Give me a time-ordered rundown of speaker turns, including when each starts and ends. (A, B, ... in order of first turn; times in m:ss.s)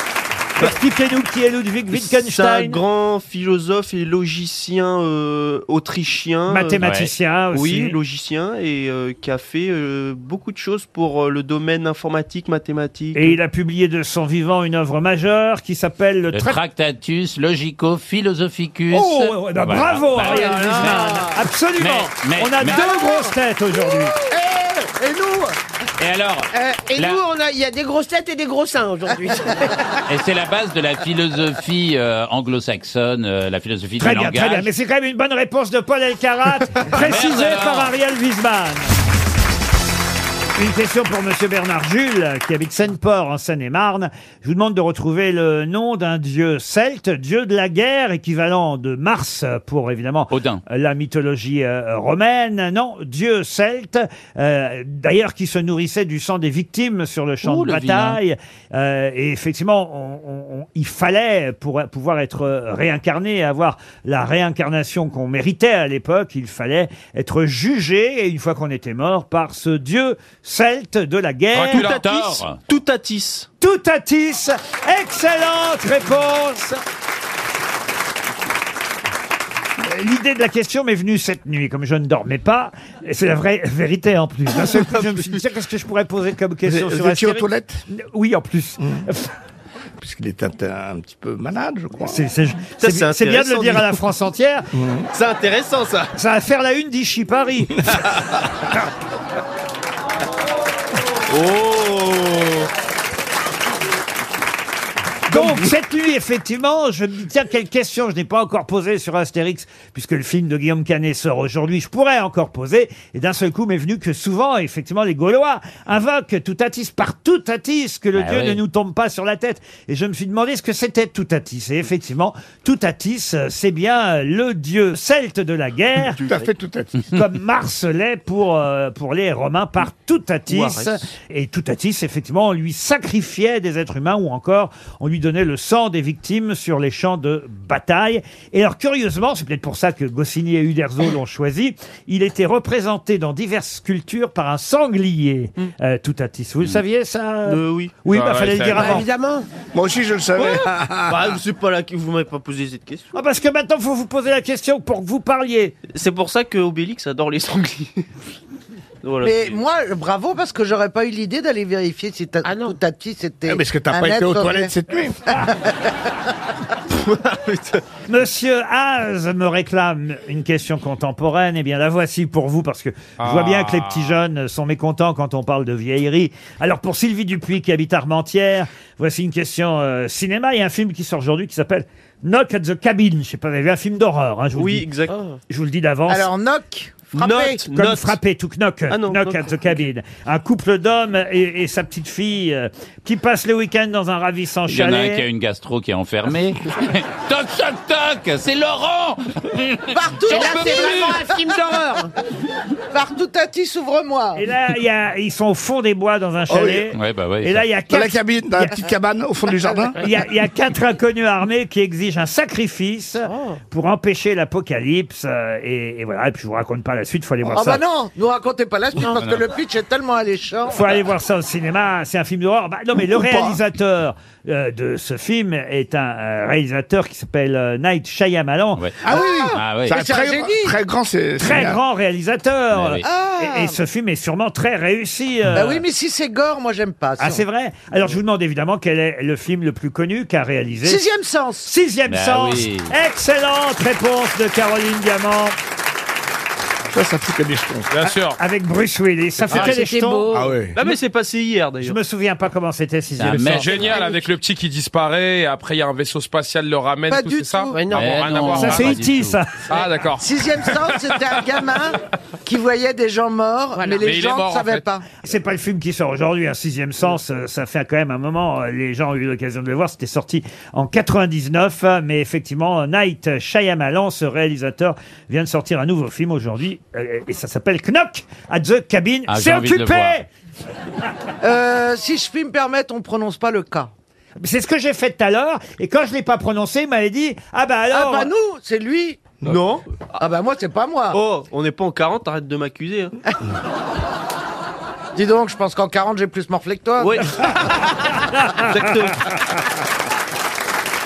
0:00.6-0:02.8 A
0:01.9-0:06.8 B
0:06.5-0:08.0 A
0:06.8-0:07.1 C
0:07.5-0:13.4 B
0:13.1-0:16.6 A
0:16.3-0:21.2 C
0:18.9-0:24.2 A
0:20.3-0:21.2 D
0:20.7-0:21.1 E
0:21.8-0:22.9 C
0:24.2-0:25.6 E
0:26.0-0:27.2 C
0:26.5-0:29.9 D
0:30.1-0:34.7 C
0:34.0-0:38.9 A
0:36.9-0:37.9 C
0:40.6-1:11.9 A
0:50.3-0:50.6 C
0:57.4-0:58.2 C
1:11.5-1:12.0 F
1:11.7-1:13.5 B
1:11.8-1:12.6 C
1:13.6-1:16.8 A
1:19.8-1:29.3 A
1:26.6-1:27.8 G
1:28.8-1:29.1 G
1:30.0-1:32.2 G
1:32.0-1:34.7 A
1:32.8-1:34.0 B
1:34.7-1:35.1 G
1:35.1-1:36.1 B
1:36.2-1:38.1 A
1:41.3-1:42.7 B
1:45.3-2:06.2 A
1:45.3-1:45.7 B
1:58.2-1:58.6 C
2:06.1-2:06.5 B
2:06.2-2:06.9 G
2:07.1-2:29.0 A
2:10.5-2:11.0 B
2:27.4-2:28.0 B
2:28.1-2:29.0 F
2:28.7-2:29.5 D
2:29.7-2:31.4 G
2:30.4-2:33.2 B
2:33.1-2:35.8 A
2:35.9-2:38.0 B
2:39.0-2:39.6 B
2:39.2-2:44.7 E
2:42.4-2:42.8 D
2:43.4-2:45.3 G
2:45.3-2:45.7 E
2:46.9-2:47.8 B
2:48.1-3:04.9 A
2:53.2-2:54.2 F
3:04.5-3:05.1 B
3:05.1-3:05.4 D
3:05.5-3:06.3 A
3:06.1-3:07.6 E
3:07.1-3:08.2 B
3:07.7-3:15.2 A
3:08.9-3:09.7 B
3:14.7-3:21.1 C
3:19.9-3:21.9 E
3:20.2-3:22.1 D
3:22.9-3:24.4 E
3:24.4-3:28.8 A
3:26.5-3:26.9 G
3:27.0-3:27.6 C
3:27.9-3:30.0 G
3:30.0-3:37.8 A
3:33.3-3:33.6 D
3:37.4-3:41.0 E
3:40.7-3:48.8 A
3:42.9-3:43.6 G
3:49.0-3:50.8 E
3:49.1-3:51.8 G
3:49.5-3:50.0 C
3:51.4-3:55.8 A
3:52.7-3:53.0 C
3:53.0-3:53.8 E
3:55.5-3:57.4 E
3:57.2-4:01.0 A
4:00.8-4:01.7 E
4:01.6-4:05.6 A
4:02.1-4:02.9 C
4:06.9-4:07.9 G
4:07.9-4:08.4 F
4:08.4-4:10.3 A
4:09.5-4:10.4 E
4:09.9-4:10.2 D
4:10.3-4:10.8 G
4:10.7-4:12.0 B
4:11.8-4:14.0 A
4:13.2-4:14.0 C
4:13.4-4:19.0 F
4:17.1-4:17.8 E
4:17.7-4:18.3 D
4:17.9-4:19.4 C
4:18.6-4:19.6 A
4:19.7-4:21.1 F
4:20.2-4:25.0 E
4:23.8-4:24.0 D
4:24.0-4:24.8 F
4:25.2-4:40.3 A
4:39.3-4:40.2 C
4:41.4-4:43.9 E
4:44.4-4:48.3 A
4:47.9-4:49.3 E
4:49.4-4:49.8 B
4:50.2-4:51.2 E
4:51.1-4:53.2 B
4:55.1-4:57.5 E
4:57.0-4:57.4 B
4:58.5-4:59.3 B